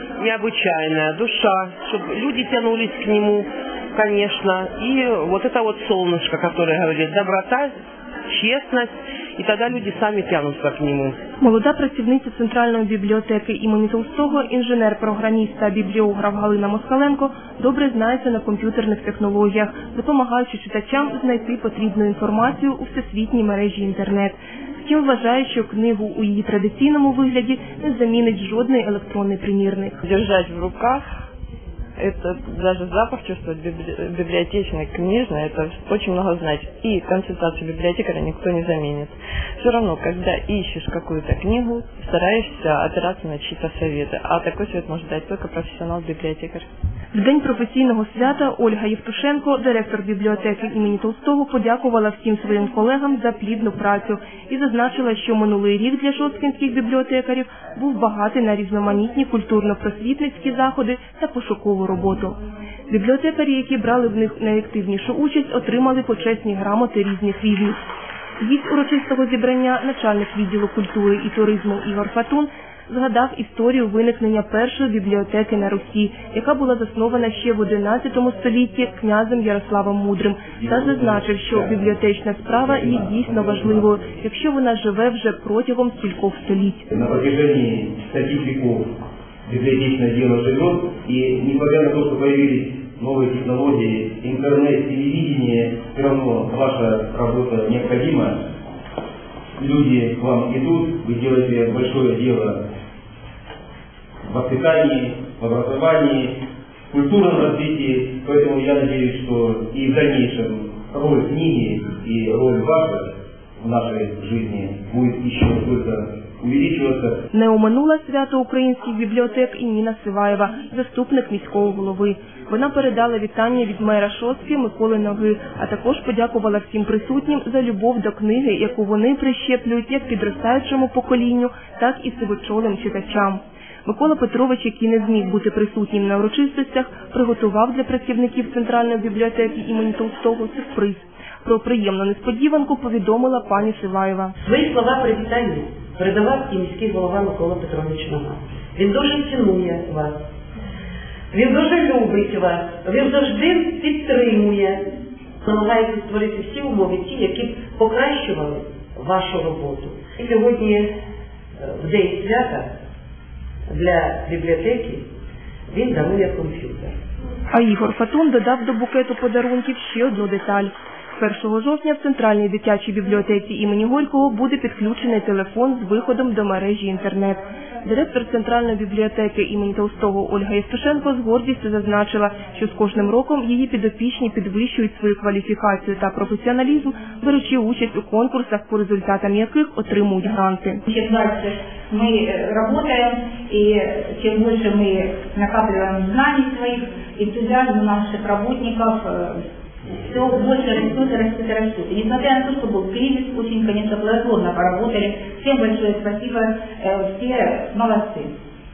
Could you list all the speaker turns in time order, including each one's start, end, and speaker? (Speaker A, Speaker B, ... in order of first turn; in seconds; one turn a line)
Speaker A: 0.2-7.7
Speaker A: 8.3-11.2
Speaker B: 11.4-30.0
Speaker C: 30.0-31.1
Speaker C: 32.0-46.7
Speaker B: 47.1-62.4
Speaker B: 62.9-67.8
Speaker B: 68.4-86.9
Speaker D: 80.6-81.8
Speaker D: 82.9-83.7
Speaker D: 86.9-88.9
Speaker D: 89.5-98.5
Speaker D: 99.6-102.7
Speaker D: 104.3-117.2
Speaker B: 117.3-144.3
Speaker E: 144.4-150.2
Speaker E: 151.3-154.8
Speaker E: 155.4-160.9
Speaker E: 161.6-162.7
Speaker E: 163.7-165.1
Speaker E: 165.7-166.9
Speaker B: 167.5-190.8
Speaker F: 190.9-199.4
Speaker F: 199.9-208.3